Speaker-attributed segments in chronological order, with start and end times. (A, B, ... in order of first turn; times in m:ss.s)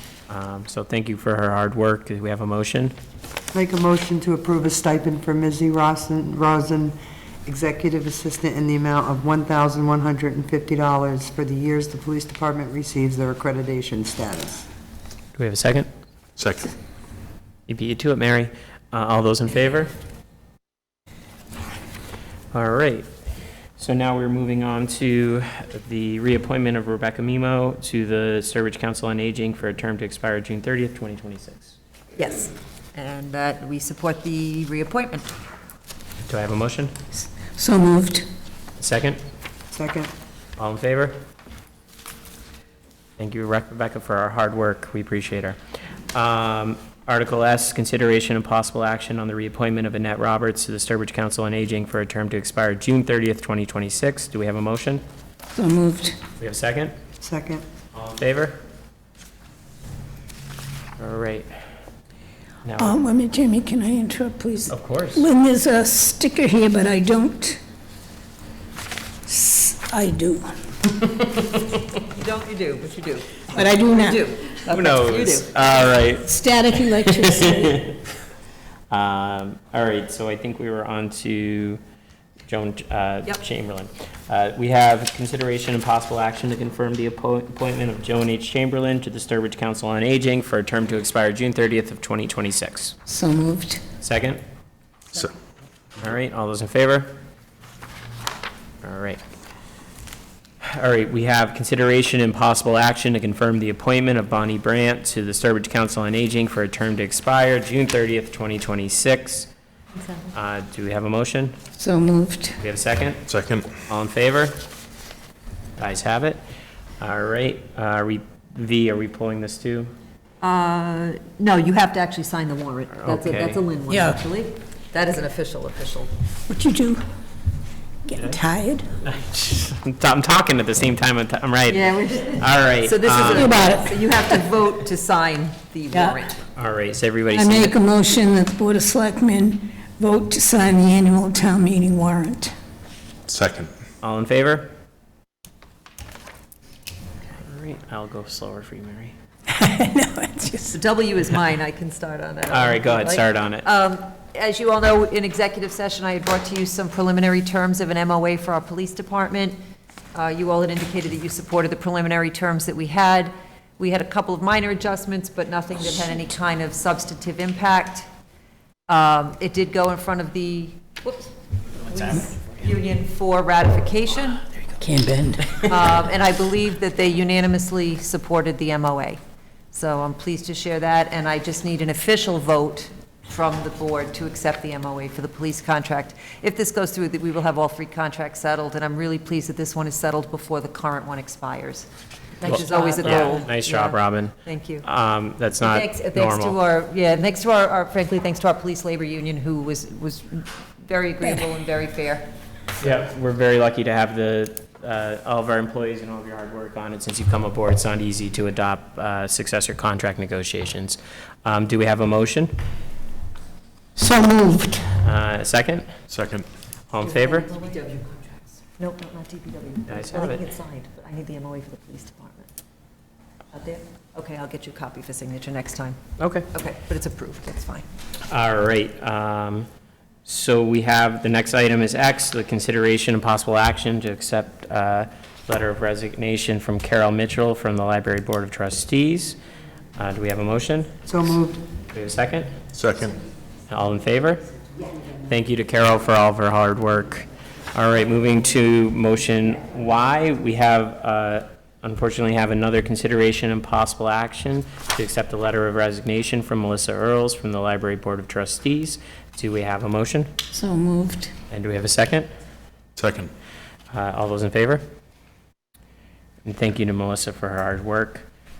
0:00.3-0:02.9 A
0:03.5-0:06.9 B
0:07.4-0:14.6 B
0:15.3-0:15.9 A
0:16.4-0:16.7 C
0:17.7-0:19.9 A
0:22.5-0:23.1 A
0:23.8-0:31.7 A
0:32.2-0:35.3 D
0:36.3-0:36.9 A
0:37.5-0:38.2 E
0:38.8-0:39.2 A
0:39.7-0:40.1 B
0:40.6-0:41.2 A
0:43.2-0:45.6 A
0:46.1-0:55.0 A
0:55.5-0:56.2 E
0:56.4-0:56.9 A
0:57.2-0:57.6 B
0:57.9-0:58.6 A
1:01.0-1:01.5 A
1:02.6-1:03.0 A
1:02.8-1:07.6 E
1:04.7-1:05.2 A
1:09.2-1:10.5 E
1:12.0-1:15.8 D
1:13.5-1:14.2 E
1:14.7-1:16.2 A
1:16.2-1:17.8 E
1:17.2-1:18.0 A
1:18.9-1:21.8 A
1:22.5-1:33.0 A
1:33.1-1:33.8 E
1:34.0-1:34.4 A
1:36.0-1:37.1 A
1:38.8-1:39.2 A
1:40.6-1:49.5 A
1:50.3-1:51.6 A
1:51.8-1:52.6 E
1:52.6-1:54.6 A
1:53.3-1:53.7 C
1:55.8-1:56.4 A
1:57.0-1:59.9 A
2:00.4-2:06.1 D
2:03.0-2:03.6 A
2:03.9-2:04.2 E
2:06.5-2:07.0 E
2:08.0-2:08.9 E
2:09.0-2:13.5 A
2:11.7-2:16.4 D
2:13.2-2:14.3 E
2:16.5-2:17.7 A
2:17.3-2:22.5 E
2:23.3-2:23.7 C
2:24.0-2:24.7 A
2:27.3-2:29.1 A
2:29.5-2:30.8 E
2:30.7-2:39.6 D
2:32.5-2:33.6 A
2:40.1-2:48.0 D
2:48.9-2:51.3 D
2:51.9-2:52.2 A
2:51.9-2:54.4 D
2:54.8-2:55.6 E
2:55.6-2:59.2 D
2:59.7-3:11.9 D
3:12.4-3:14.8 D
3:12.4-3:16.6 A
3:15.6-3:22.3 D
3:22.8-3:32.5 A
3:34.0-3:34.9 E
3:35.0-3:35.9 A
3:36.1-3:36.4 C
3:36.9-3:37.5 A
3:37.0-3:42.5 D
3:39.9-3:40.4 A
3:43.5-3:46.0 D
3:46.2-3:46.5 A
3:46.5-3:47.9 D
3:48.3-3:49.7 A
3:50.2-3:59.4 A
4:00.0-4:00.9 A
4:01.0-4:01.6 B
4:01.9-4:02.6 A
4:02.7-4:03.2 C
4:03.7-4:04.5 A
4:05.3-4:20.3 A
4:20.5-4:21.3 E
4:21.5-4:22.3 A
4:23.0-4:23.3 C
4:23.9-4:24.8 A
4:26.4-4:28.3 A